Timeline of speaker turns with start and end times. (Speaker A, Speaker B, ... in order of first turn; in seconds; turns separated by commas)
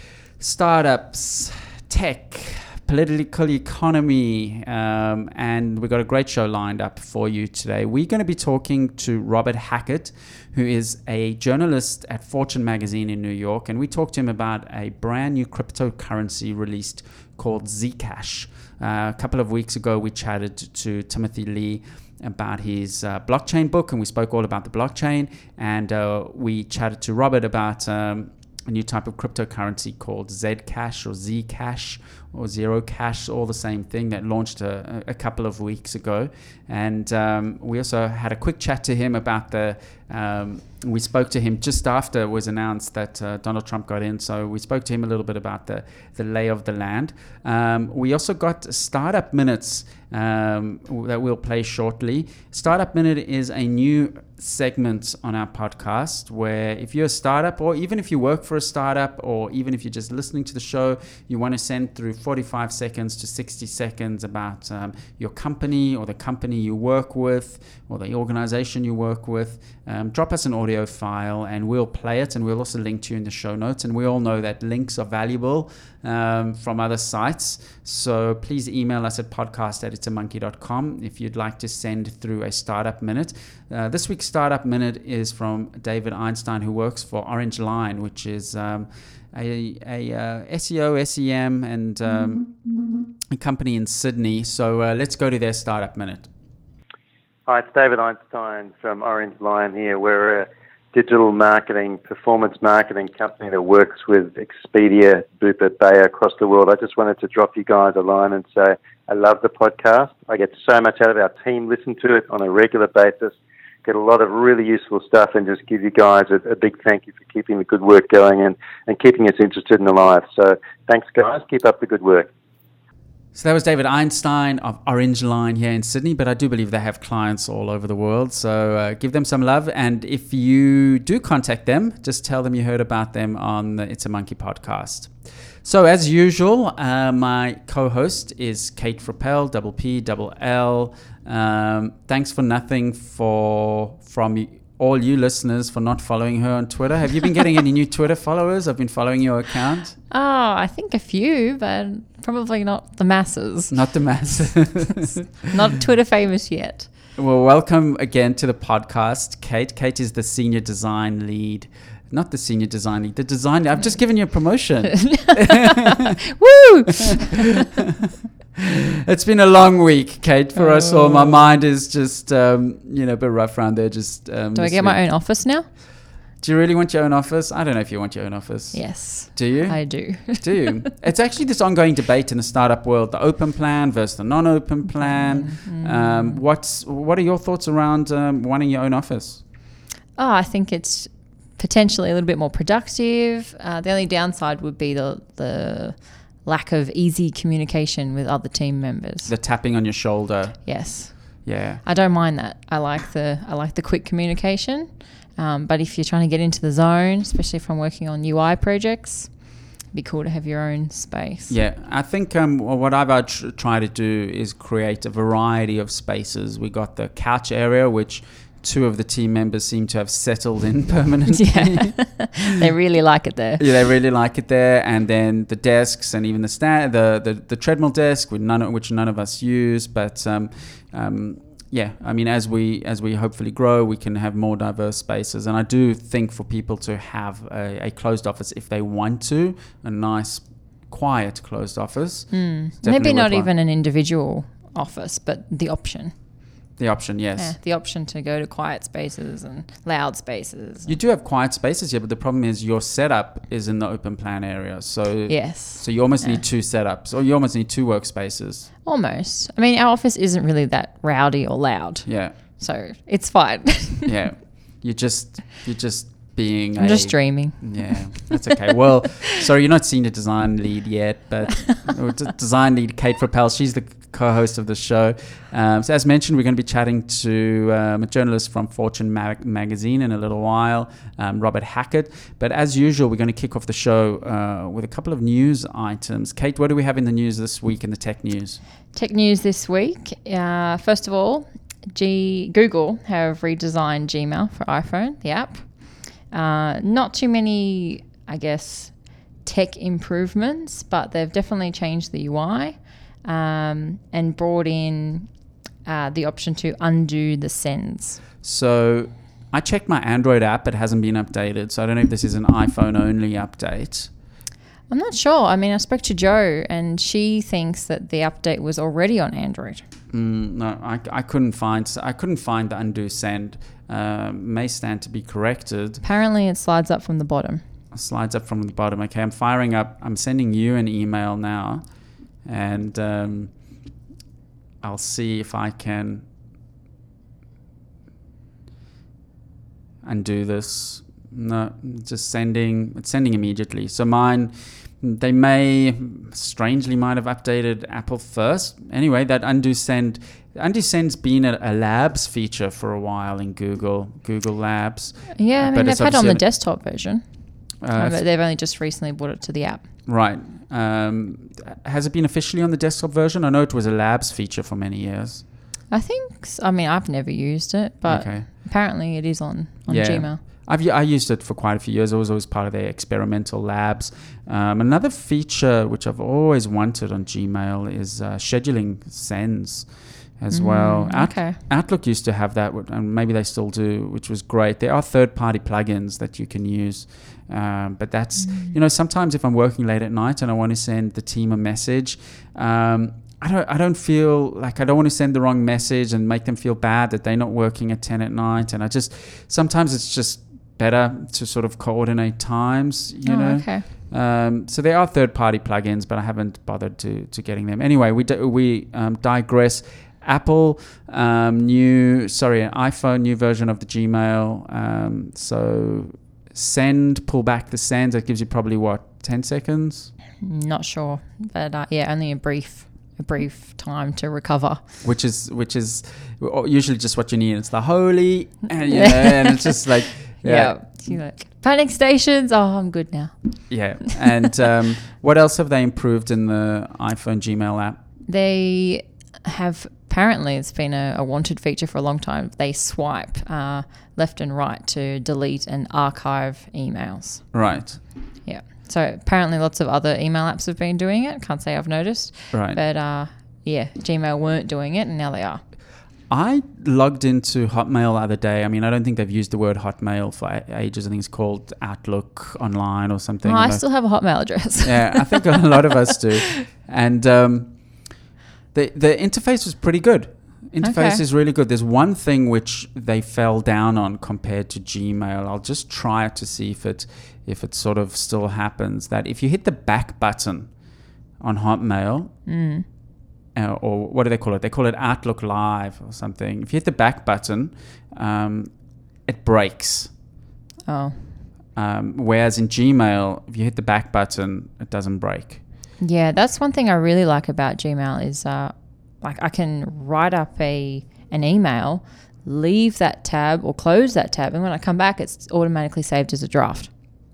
Speaker A: 0.4-92.6, Speaker A: 93.3-96.3, Speaker B: 97.5-122.3, Speaker A: 123.3-150.0, Speaker C: 150.1-153.7, Speaker A: 153.7-155.2, Speaker C: 155.5-156.9, Speaker A: 157.2-166.1, Speaker C: 165.1-165.7, Speaker C: 166.4-167.3, Speaker A: 168.8-175.0, Speaker C: 170.6-171.5, Speaker C: 174.6-175.7, Speaker A: 176.4-189.4, Speaker C: 178.7-180.7, Speaker C: 184.9-186.4, Speaker C: 190.2-199.3, Speaker A: 199.2-201.8, Speaker C: 200.7-211.6, Speaker A: 211.5-222.3, Speaker C: 221.3-223.7, Speaker A: 223.6-243.5, Speaker C: 242.3-246.2, Speaker A: 246.8-247.6, Speaker C: 247.4-250.9, Speaker A: 250.8-258.7, Speaker C: 255.3-256.4, Speaker C: 258.9-264.1, Speaker A: 262.1-262.4, Speaker A: 264.1-288.6, Speaker C: 266.8-268.4, Speaker C: 288.9-305.3, Speaker C: 305.9-308.2, Speaker A: 308.4-314.1, Speaker C: 314.9-319.8, Speaker A: 320.1-326.0, Speaker C: 326.0-327.6, Speaker A: 327.9-333.5, Speaker A: 334.8-336.3, Speaker A: 340.0-356.4, Speaker C: 355.4-359.9, Speaker A: 357.8-358.2, Speaker A: 360.1-365.4, Speaker C: 365.9-370.4, Speaker A: 368.1-368.5, Speaker A: 369.9-420.1, Speaker C: 380.5-381.6, Speaker C: 388.4-388.8, Speaker C: 403.2-403.9, Speaker C: 420.4-424.8, Speaker A: 425.0-431.1, Speaker C: 428.9-429.9, Speaker C: 430.4-433.7, Speaker A: 433.7-438.0, Speaker C: 438.3-455.6, Speaker A: 447.5-448.0, Speaker A: 452.5-452.8, Speaker A: 456.3-463.9, Speaker C: 463.4-465.8, Speaker A: 464.8-468.2, Speaker A: 468.7-480.7, Speaker C: 470.8-471.2, Speaker A: 481.4-482.4, Speaker C: 482.5-482.9, Speaker A: 483.6-490.1, Speaker C: 490.9-491.4, Speaker A: 491.8-495.6, Speaker C: 496.0-506.9